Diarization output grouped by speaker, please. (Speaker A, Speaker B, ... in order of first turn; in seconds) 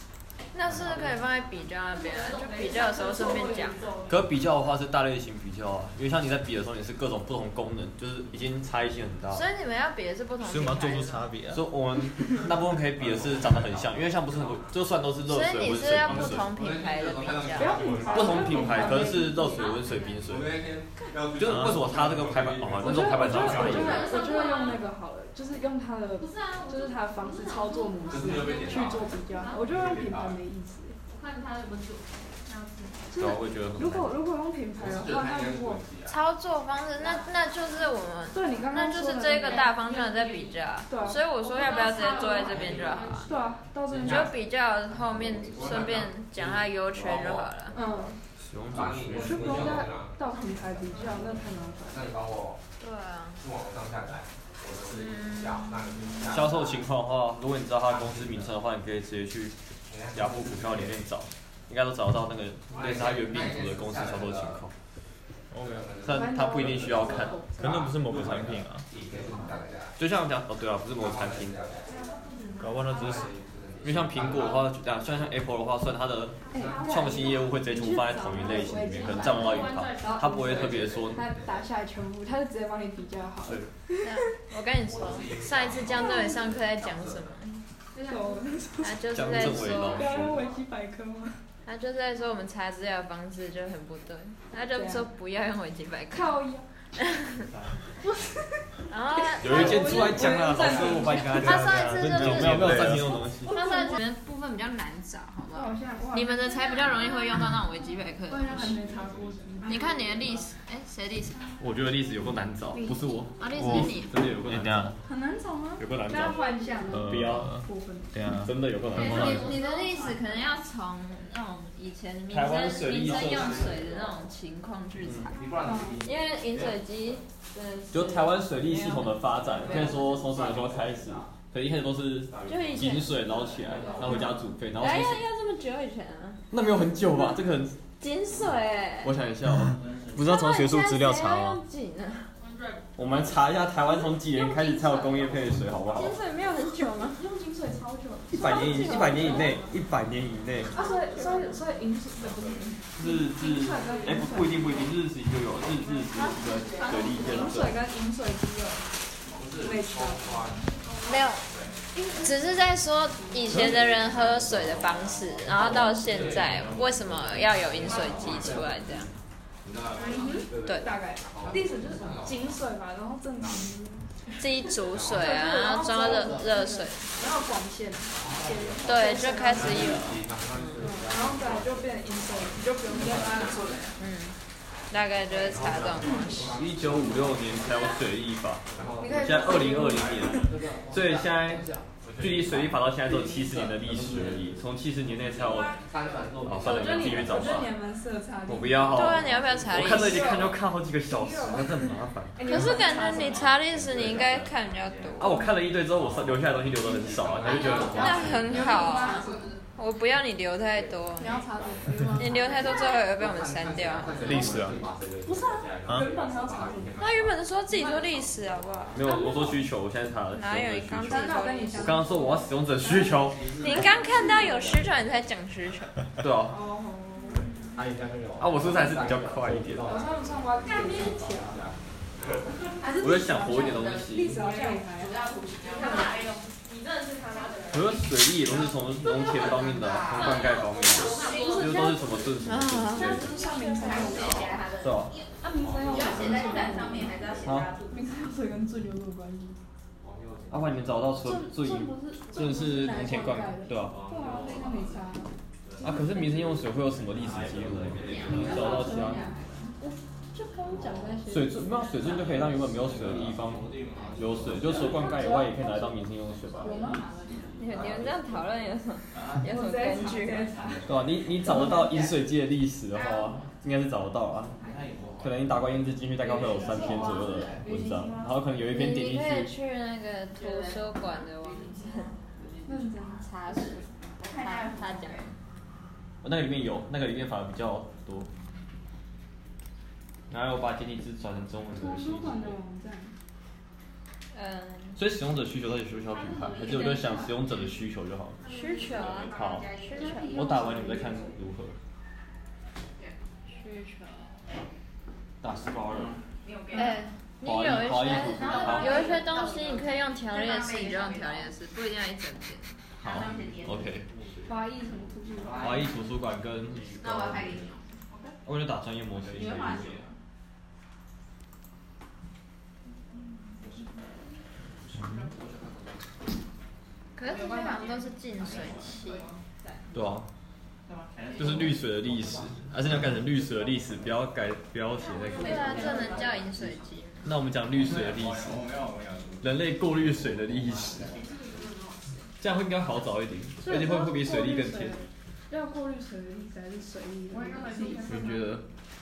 Speaker A: 0.5-3.8, 9.3-11.2, 15.3-17.9, 36.0-43.3, 44.0-47.8, 52.8-53.4, 54.8-56.2, 84.0-87.6, 88.8-90.2, 91.6-96.3, 97.0-97.5, 98.9-100.4, 101.2-108.8, 109.7-111.6, 113.4-114.1, 119.0-125.4, 126.0-130.0, 132.4-133.2, 134.7-136.4, 138.0-139.1, 140.1-142.3, 144.1-145.3, 145.9-147.2, 148.3-149.7, 161.0-161.4, 162.2-169.1, 170.6-170.9, 174.4-177.1, 178.8-180.7, 184.0-184.3, 184.9-186.6, 198.9-200.4, 202.4-205.5, 207.9-211.4, 212.1-214.6, 217.0-219.2, 220.3-222.0, 223.6-226.0, 242.4-243.8, 267.6-270.5, 278.7-282.1, 283.2-285.3, 294.3-295.0, 298.4-300.4, 303.5-304.3, 306.7-312.8, 327.1-329.3, 335.4-337.2
Speaker B: 1.9-4.1, 19.6-20.1, 23.4-24.8, 26.2-29.7, 31.1-33.1, 39.4-40.5, 41.4-43.4, 71.9-72.9, 77.0-77.3, 79.0-80.8, 87.9-88.4, 118.9-120.3, 142.4-142.8, 208.0-209.3, 230.7-231.1, 235.7-238.0, 240.1-242.0, 243.3-244.6, 296.6-297.2, 298.4-300.3
Speaker C: 4.1-9.4, 11.5-16.5, 18.1-20.6, 21.3-24.1, 33.1-34.1, 48.5-49.7, 56.3-59.5, 60.1-64.7, 66.0-68.6, 70.0-71.6, 73.8-81.3, 83.4-83.7, 89.1-90.5, 99.4-103.6, 111.6-115.0, 115.8-117.5, 118.4-119.5, 122.3-123.8, 125.0-125.3, 127.9-135.2, 136.5-137.8, 139.0-139.8, 142.9-146.2, 148.3-150.8, 152.9-157.8, 186.5-191.6, 192.2-195.8, 196.4-197.7, 198.5-202.7, 205.2-208.4, 218.9-223.5, 226.2-226.6, 228.4-229.9, 233.0-234.4, 237.7-243.3, 244.8-245.2, 247.4-247.7, 250.5-254.0, 255.8-259.3, 261.2-266.8, 270.8-274.6, 275.2-279.5, 286.2-288.3, 290.3-292.6, 294.9-298.4, 299.2-299.7, 300.3-301.8, 305.4-306.2, 307.4-309.1, 313.0-314.1, 315.6-317.6, 318.4-320.0, 329.9-330.3, 331.4-336.1, 337.2-338.6, 339.4-341.1, 342.4-345.0, 348.0-348.6
Speaker D: 10.4-11.6, 21.5-21.7, 65.5-65.8, 67.6-68.9, 72.6-73.3, 101.4-103.2, 113.5-114.9, 116.9-119.5, 140.1-141.6, 214.2-214.8
Speaker E: 16.1-18.9, 20.3-24.1, 28.1-30.4, 34.8-36.1, 42.5-42.8, 44.0-44.3, 45.5-47.6, 48.7-50.2, 51.9-52.6, 53.4-56.9, 57.9-58.5, 59.9-61.0, 62.7-64.6, 65.5-67.8, 68.9-70.0, 70.9-71.9, 72.9-74.7, 76.5-76.9, 84.9-87.2, 123.5-124.0, 125.3-126.7, 129.6-131.0, 133.7-134.3, 159.3-159.7, 165.5-166.7, 167.8-168.4, 169.6-170.2, 171.2-172.6, 179.5-181.6, 186.0-187.3, 188.7-194.4, 195.3-197.7, 207.2-208.7, 212.7-217.3, 223.6-224.4, 227.7-230.5, 231.4-231.7, 245.6-246.3, 250.0-250.7
Speaker F: 17.5-19.8, 22.8-30.9, 33.1-35.9, 38.3-39.7, 40.9-41.2, 43.2-44.3, 47.7-48.1, 49.1-52.1, 66.1-67.9, 76.5-84.3, 87.9-91.4, 94.7-95.1, 96.1-96.7, 98.0-98.6, 99.2-101.6, 103.4-104.0, 105.5-107.5, 108.3-110.0, 112.7-113.2, 115.0-118.3, 125.6-126.0, 147.0-149.7, 150.7-154.9, 156.8-158.8, 159.6-160.7, 161.9-162.4, 170.0-174.0, 175.1-179.8, 180.8-183.9, 186.1-186.4, 189.0-190.5, 196.6-203.5, 207.5-209.5, 211.2-212.2, 215.2-217.1, 219.0-219.5, 221.0-223.3, 226.5-227.5, 229.8-231.6, 232.8-236.2, 241.1-242.2, 242.8-244.6, 245.4-247.2, 247.9-249.6, 251.1-255.3, 255.8-256.4, 258.2-261.6, 264.7-265.9, 266.6-267.1, 269.4-272.1, 277.6-278.3, 282.6-283.3, 291.7-293.1, 299.9-301.3, 314.4-315.9, 343.6-348.4